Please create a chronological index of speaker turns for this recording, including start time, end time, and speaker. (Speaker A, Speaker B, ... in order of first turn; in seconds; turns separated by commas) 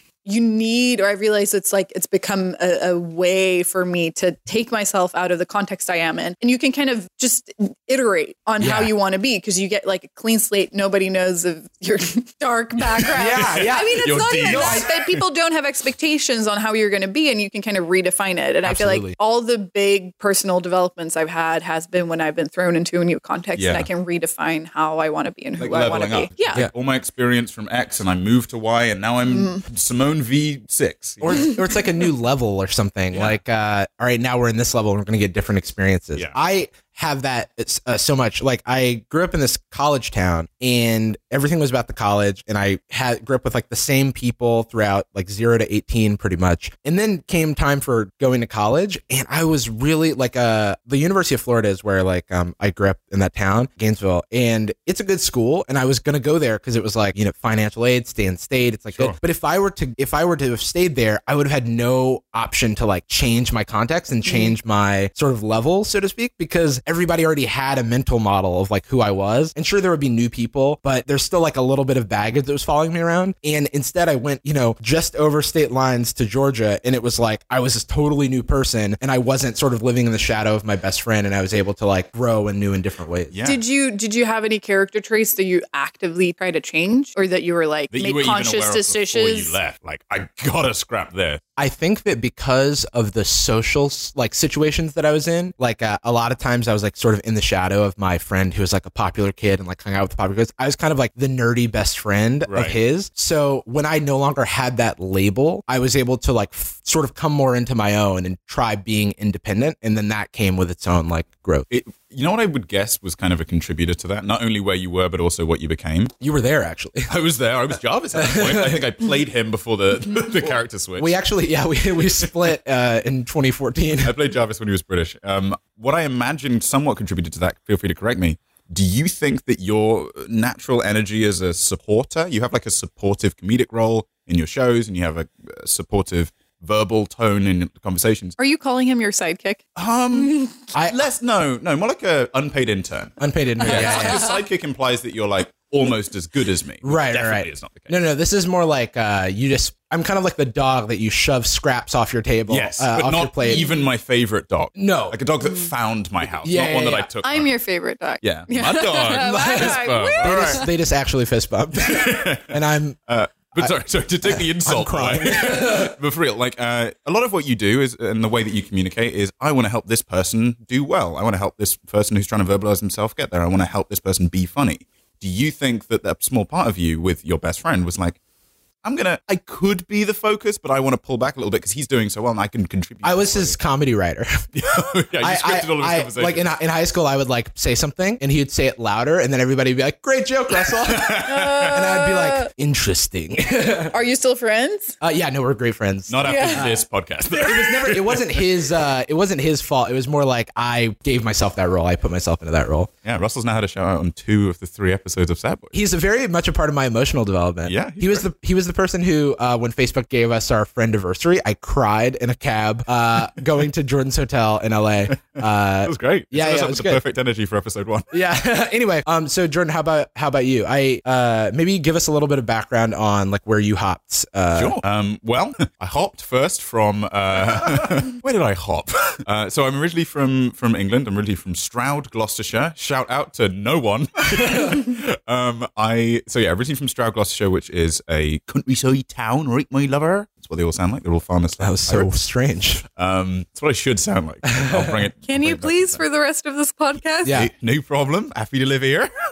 Speaker A: 0.2-26.6, Speaker B: 8.6-8.9, Speaker C: 13.0-15.2, Speaker B: 13.1-14.9, Speaker B: 18.6-19.2, Speaker C: 23.6-23.9, Speaker C: 25.6-31.6, Speaker A: 29.3-29.6, Speaker B: 31.2-83.4, Speaker C: 33.1-33.4, Speaker A: 64.3-64.5, Speaker C: 83.3-83.6, Speaker A: 83.4-89.6, Speaker C: 87.9-91.4, Speaker B: 91.6-111.7, Speaker C: 102.5-102.8, Speaker C: 111.7-116.1, Speaker B: 116.2-117.1, Speaker C: 117.1-121.2, Speaker B: 118.2-118.8, Speaker B: 121.0-124.1, Speaker C: 124.0-138.4, Speaker A: 138.4-140.6, Speaker C: 139.8-147.9, Speaker B: 140.7-141.0, Speaker B: 143.2-144.3, Speaker A: 143.7-144.2, Speaker B: 146.8-153.7, Speaker C: 152.5-157.5, Speaker B: 154.8-155.2, Speaker B: 156.4-157.1, Speaker A: 157.2-160.7, Speaker C: 158.2-160.7, Speaker B: 159.2-163.0, Speaker C: 161.8-178.2, Speaker B: 163.6-165.9, Speaker C: 178.8-183.6, Speaker B: 183.0-184.5, Speaker C: 184.5-186.5, Speaker B: 185.2-193.9, Speaker C: 190.7-191.8, Speaker A: 191.2-192.5, Speaker A: 193.9-195.0, Speaker B: 195.0-202.9, Speaker C: 196.1-198.5, Speaker A: 196.2-196.7, Speaker C: 203.1-205.8, Speaker B: 205.7-217.0, Speaker C: 207.7-208.3, Speaker C: 215.8-218.1, Speaker B: 218.1-224.8, Speaker C: 224.5-242.1, Speaker B: 241.6-242.8, Speaker C: 242.9-246.0, Speaker B: 244.5-245.0, Speaker A: 245.3-247.4, Speaker B: 247.2-247.5, Speaker C: 247.3-249.1